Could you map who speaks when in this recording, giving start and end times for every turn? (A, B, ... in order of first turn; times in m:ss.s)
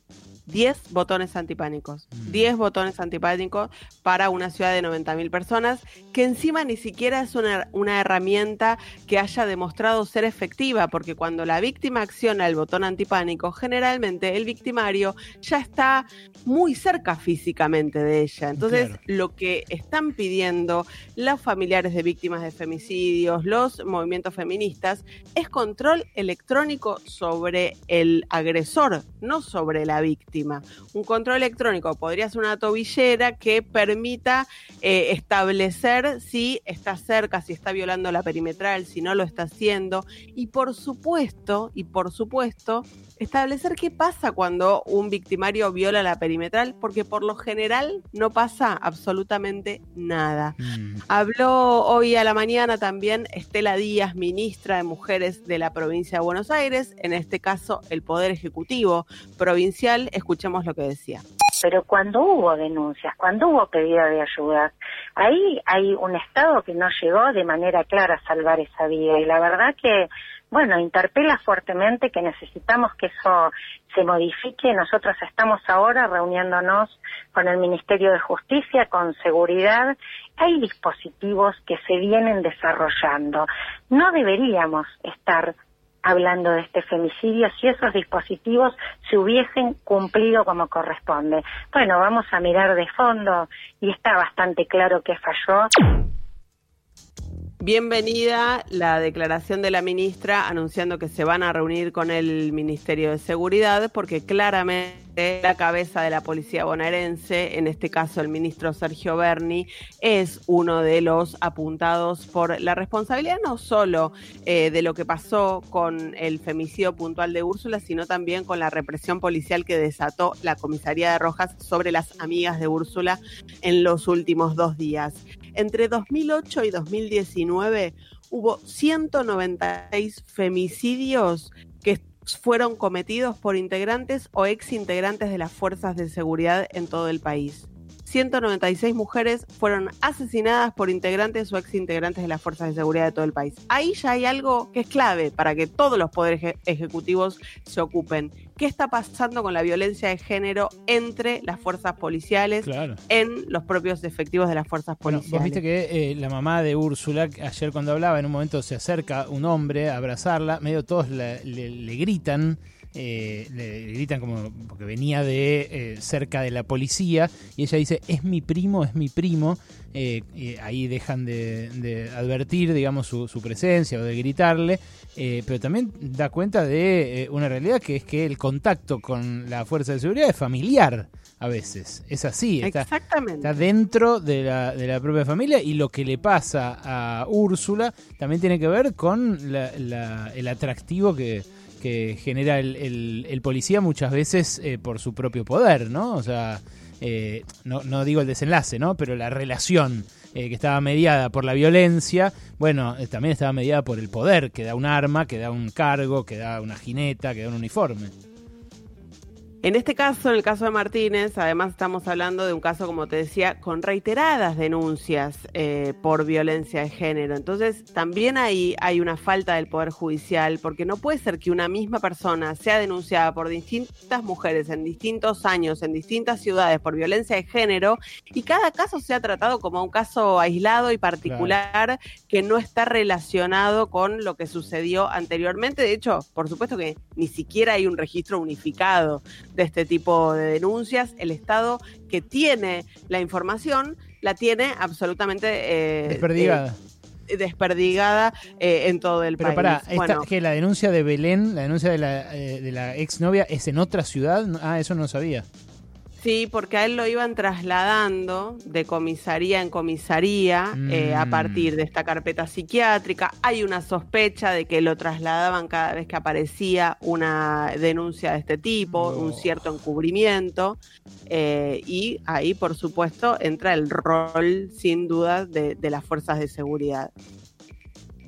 0:00.4-0:50.6 A
0:02.2-0:02.4 B
0:18.6-0:19.0 B
0:50.6-0:51.0 B
0:51.1-1:01.2 A
1:01.6-1:35.6 C
1:37.6-2:35.6 A
2:32.6-2:33.0 B
2:35.0-3:02.9 B
3:02.6-3:03.5 A
3:03.4-3:28.1 B
3:29.6-4:06.6 A
3:51.2-3:51.6 B
4:06.1-4:06.8 B
4:07.3-4:10.2 A
4:09.4-4:15.5 B
4:16.2-4:37.1 A
4:20.7-4:21.7 B
4:28.9-4:29.7 B